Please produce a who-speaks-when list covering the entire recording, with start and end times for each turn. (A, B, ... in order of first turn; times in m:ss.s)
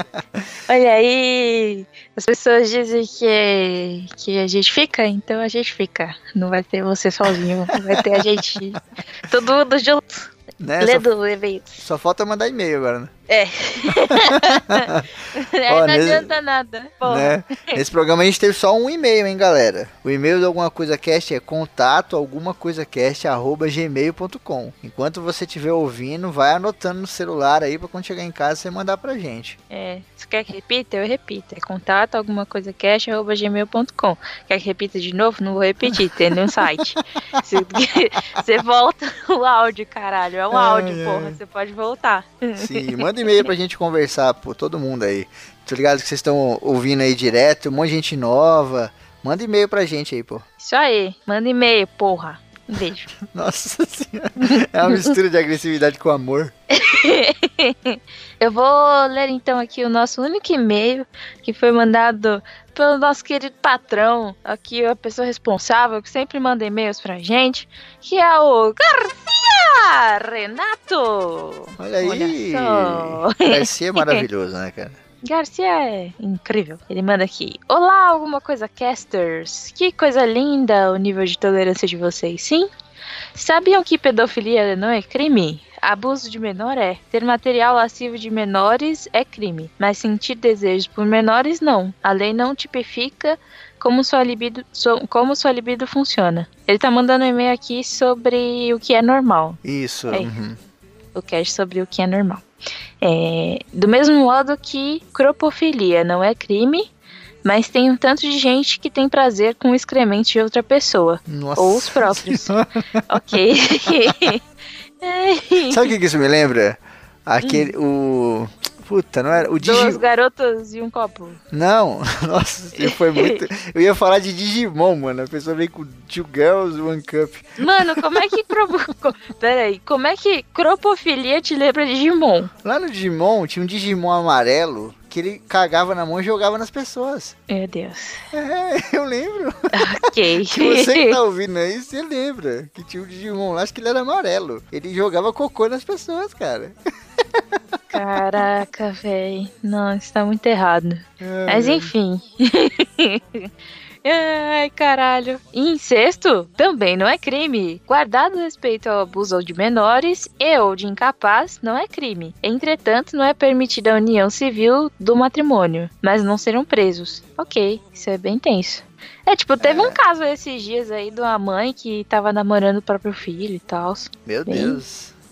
0:00.7-0:11.8 A
0:07.9-0:08.2 B
0:10.6-0:11.1 B
0:11.8-0:13.1 B
0:13.3-0:17.8 A
0:14.0-0:15.0 B
0:15.7-0:16.3 B
0:17.0-0:29.6 B
0:29.7-0:43.4 A
0:40.5-0:41.4 B
0:42.6-0:50.4 B
0:50.6-0:53.1 A
0:53.2-0:56.5 B
0:54.4-0:55.1 A
0:56.7-1:14.2 A
1:11.8-1:15.0 B
1:15.2-1:22.7 A
1:23.3-1:39.6 A
1:39.6-1:40.6 B
1:41.1-1:42.4 A
1:43.0-1:46.9 A
1:47.4-1:52.5 A
1:51.3-1:53.2 B
1:53.1-1:54.4 A
1:54.0-1:54.3 B
1:55.0-1:55.9 A
1:55.7-2:00.0 B
1:57.4-1:57.8 A
1:59.3-2:01.4 A
2:01.5-2:07.4 B
2:02.8-2:03.5 A
2:07.6-2:12.5 A
2:12.6-2:17.3 B
2:17.5-2:18.2 A
2:18.3-2:19.9 B
2:19.7-2:21.2 A
2:20.4-2:26.7 B
2:27.9-2:33.5 A
2:31.2-2:31.9 B
2:34.0-2:54.8 A
2:49.6-2:50.0 B
2:54.2-2:55.1 B